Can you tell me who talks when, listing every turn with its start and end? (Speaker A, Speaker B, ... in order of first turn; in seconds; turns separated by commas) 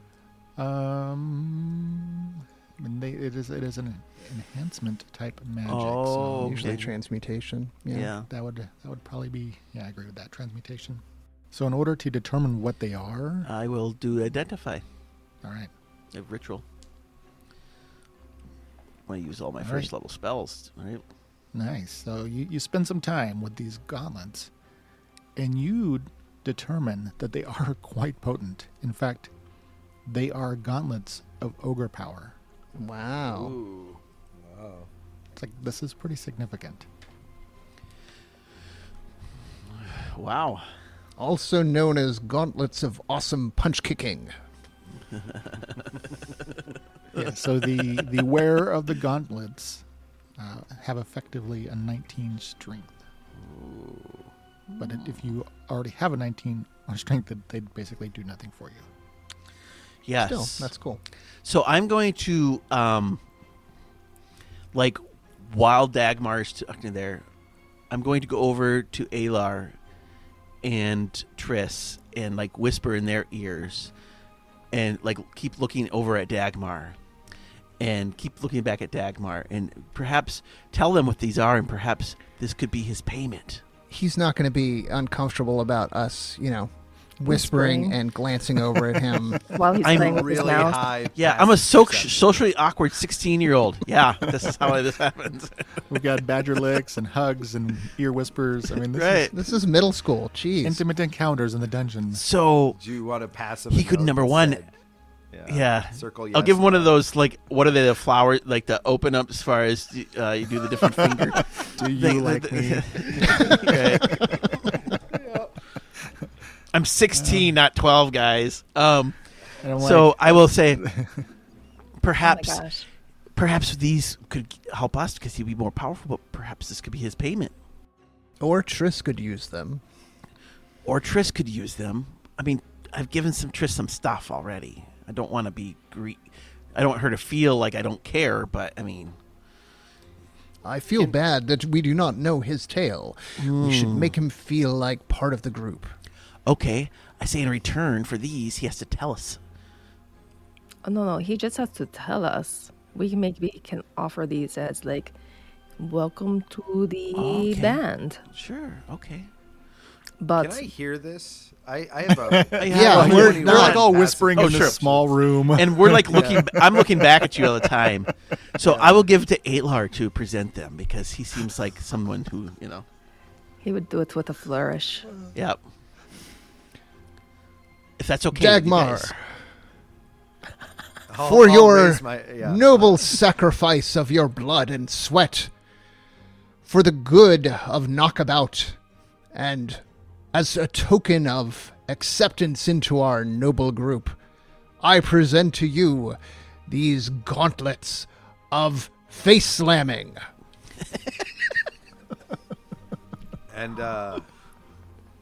Speaker A: 0.6-6.8, Speaker B: 5.7-6.9, Speaker C: 6.4-8.1, Speaker B: 7.9-8.3, Speaker A: 8.2-13.5, Speaker B: 13.4-14.8, Speaker A: 15.4-15.7, Speaker B: 16.1-16.6, Speaker B: 19.1-21.0, Speaker A: 19.6-19.9, Speaker A: 21.5-24.5, Speaker A: 25.4-29.3, Speaker A: 30.1-32.4, Speaker C: 32.8-33.6, Speaker D: 33.2-34.9, Speaker A: 35.4-36.9, Speaker B: 39.7-40.7, Speaker C: 41.2-44.3, Speaker B: 45.1-45.8, Speaker A: 47.1-49.9, Speaker A: 50.4-53.0, Speaker D: 53.6-54.0, Speaker B: 54.7-55.1, Speaker A: 54.8-58.9, Speaker B: 60.0-60.7, Speaker C: 60.2-61.0, Speaker B: 61.4-63.2, Speaker B: 64.7-67.2, Speaker B: 67.9-69.7, Speaker B: 70.6-73.9, Speaker B: 74.7-77.0, Speaker B: 77.8-83.6, Speaker C: 83.9-89.5, Speaker E: 87.3-88.0, Speaker E: 89.5-90.8, Speaker D: 89.8-92.3, Speaker B: 89.8-95.8, Speaker A: 95.9-99.3, Speaker B: 98.9-99.3, Speaker C: 99.3-100.8, Speaker A: 100.6-102.2, Speaker B: 102.1-102.8, Speaker D: 102.7-104.7, Speaker B: 103.7-104.6, Speaker D: 105.3-107.0, Speaker B: 105.5-114.7, Speaker A: 110.8-114.4, Speaker B: 116.7-119.2, Speaker A: 117.1-117.5, Speaker A: 119.6-121.3, Speaker B: 119.8-120.8, Speaker B: 122.0-122.6, Speaker E: 122.2-122.9, Speaker B: 123.3-127.5, Speaker C: 128.4-129.8, Speaker B: 130.8-136.2, Speaker B: 136.7-139.2, Speaker C: 140.6-145.9, Speaker B: 143.4-144.1, Speaker B: 146.4-149.4, Speaker E: 150.8-155.1, Speaker E: 155.8-158.2, Speaker B: 157.1-159.3, Speaker E: 160.2-160.7, Speaker D: 160.4-164.8, Speaker A: 162.1-167.7, Speaker B: 162.5-172.8, Speaker C: 162.7-163.8, Speaker D: 166.1-166.5, Speaker D: 168.6-169.0, Speaker E: 173.6-175.1, Speaker B: 178.0-179.1, Speaker C: 178.3-179.1, Speaker D: 181.1-183.1, Speaker C: 181.2-185.5, Speaker C: 186.6-188.8, Speaker C: 189.3-194.2, Speaker C: 194.8-200.2, Speaker D: 203.5-204.3